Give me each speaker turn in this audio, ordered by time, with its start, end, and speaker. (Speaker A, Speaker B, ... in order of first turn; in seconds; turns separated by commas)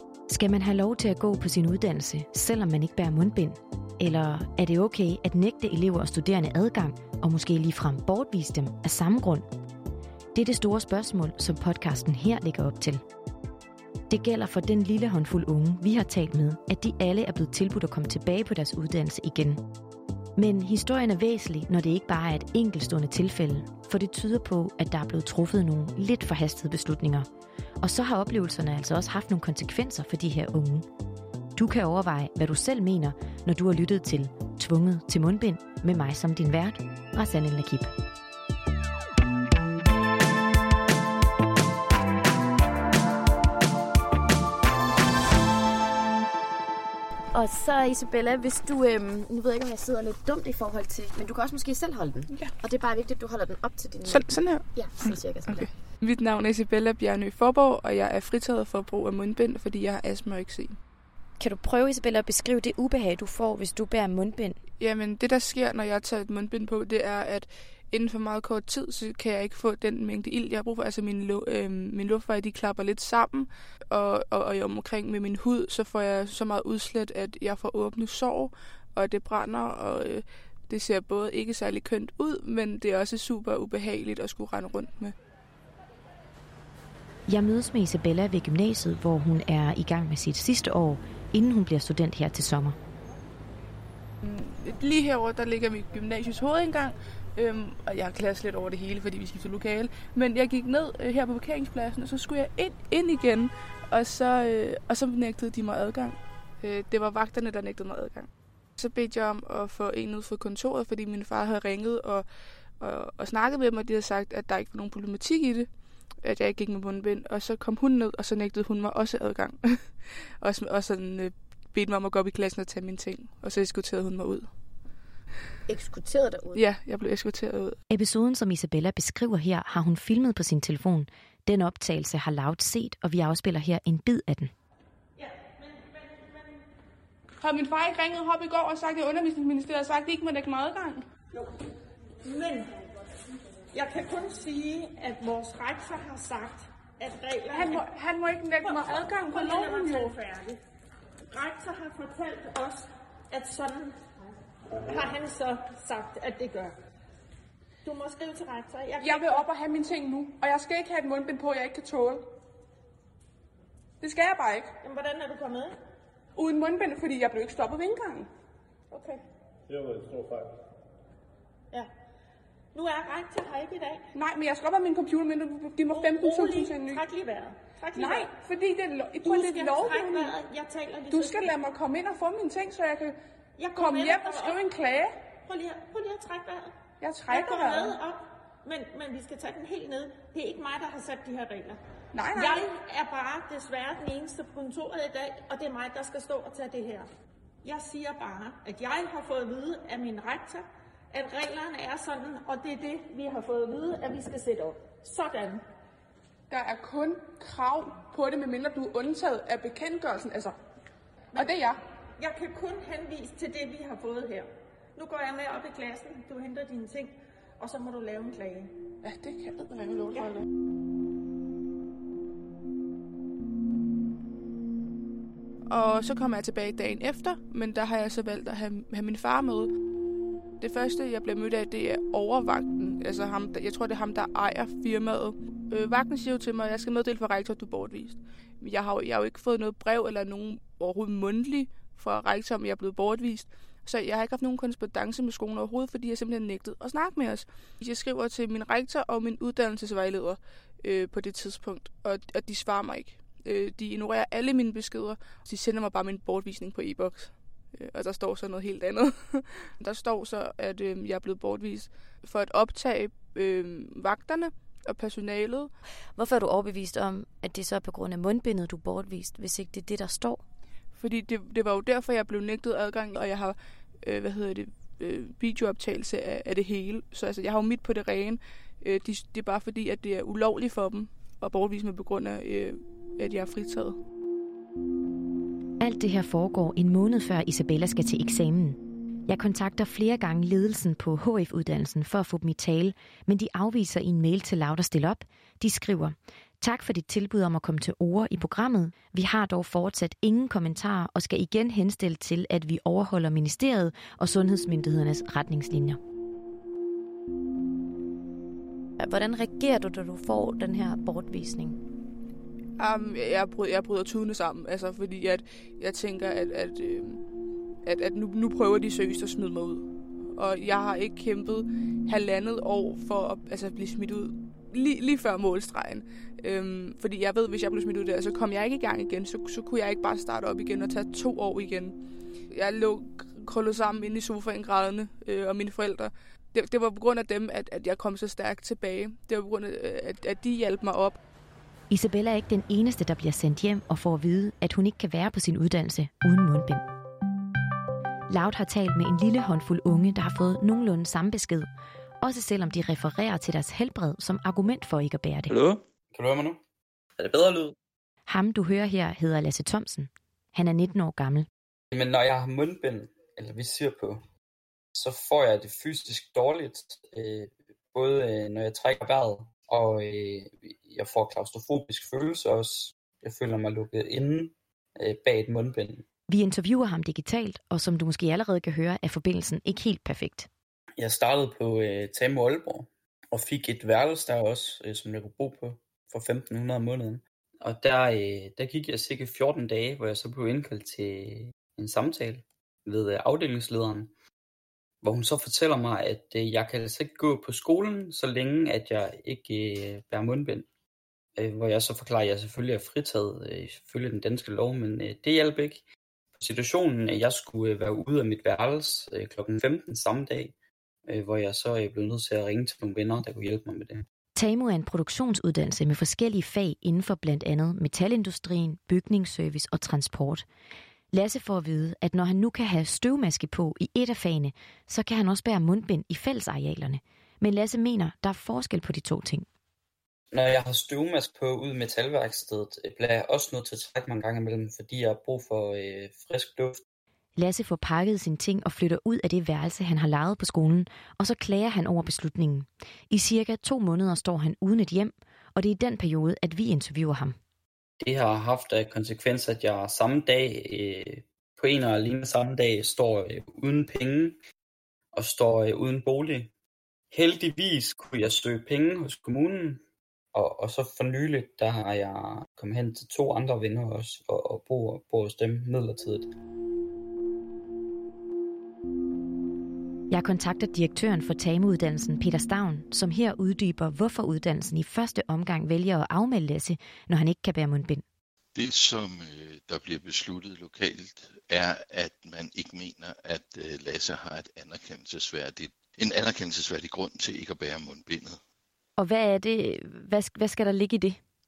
Speaker A: 0.3-9.5, Speaker A: 10.3-13.0, Speaker A: 14.1-19.6, Speaker A: 20.4-27.3, Speaker A: 27.8-30.9, Speaker A: 31.6-37.9, Speaker A: 47.3-55.7, Speaker B: 54.0-60.8, Speaker A: 61.4-64.6, Speaker B: 64.8-85.1, Speaker A: 87.3-92.8, Speaker B: 94.2-112.2, Speaker B: 112.8-115.7, Speaker B: 116.2-124.5, Speaker A: 125.7-126.6, Speaker B: 126.5-127.8, Speaker A: 127.9-134.5, Speaker C: 135.2-136.6, Speaker B: 137.4-141.0, Speaker C: 142.2-142.7, Speaker C: 143.7-147.8, Speaker B: 147.5-150.1, Speaker C: 148.6-150.6, Speaker C: 151.3-154.0, Speaker C: 154.8-156.7, Speaker C: 157.8-159.4, Speaker B: 159.0-162.2, Speaker B: 164.0-164.7, Speaker C: 164.8-165.7, Speaker B: 166.4-168.3, Speaker C: 168.9-169.2, Speaker C: 172.7-174.0, Speaker B: 174.1-177.0, Speaker C: 175.9-178.3, Speaker B: 177.9-180.3, Speaker C: 179.2-181.5, Speaker B: 181.1-183.2, Speaker C: 183.6-184.6, Speaker B: 183.8-185.1, Speaker C: 185.4-186.7, Speaker B: 187.0-188.0, Speaker C: 187.3-191.8, Speaker B: 192.1-192.6, Speaker C: 192.3-197.1, Speaker C: 197.6-205.6, Speaker B: 206.5-210.5, Speaker B: 211.4-211.8, Speaker C: 212.2-218.7, Speaker B: 219.0-220.4, Speaker C: 220.1-220.4, Speaker B: 225.7-229.7, Speaker B: 230.6-265.7, Speaker A: 266.1-270.4, Speaker B: 270.9-284.0, Speaker A: 285.8-306.0, Speaker A: 309.0-311.8, Speaker B: 312.8-317.2, Speaker B: 317.8-331.9, Speaker B: 332.5-341.2, Speaker A: 341.9-346.8, Speaker A: 348.3-351.7, Speaker A: 352.2-355.5, Speaker D: 355.5-356.6, Speaker D: 357.2-357.8, Speaker A: 358.3-361.5, Speaker D: 361.9-364.2, Speaker D: 364.9-376.0, Speaker A: 376.3-380.5, Speaker D: 381.0-394.1, Speaker D: 395.0-400.7, Speaker D: 401.4-405.8, Speaker D: 406.4-410.5, Speaker D: 411.1-414.0, Speaker A: 414.4-420.4, Speaker A: 421.1-429.4, Speaker D: 430.3-436.8, Speaker A: 437.4-447.4, Speaker D: 448.0-454.4, Speaker D: 455.1-456.5, Speaker D: 457.1-459.8, Speaker D: 460.3-466.3, Speaker A: 470.1-478.0, Speaker E: 478.5-488.4, Speaker A: 489.0-491.2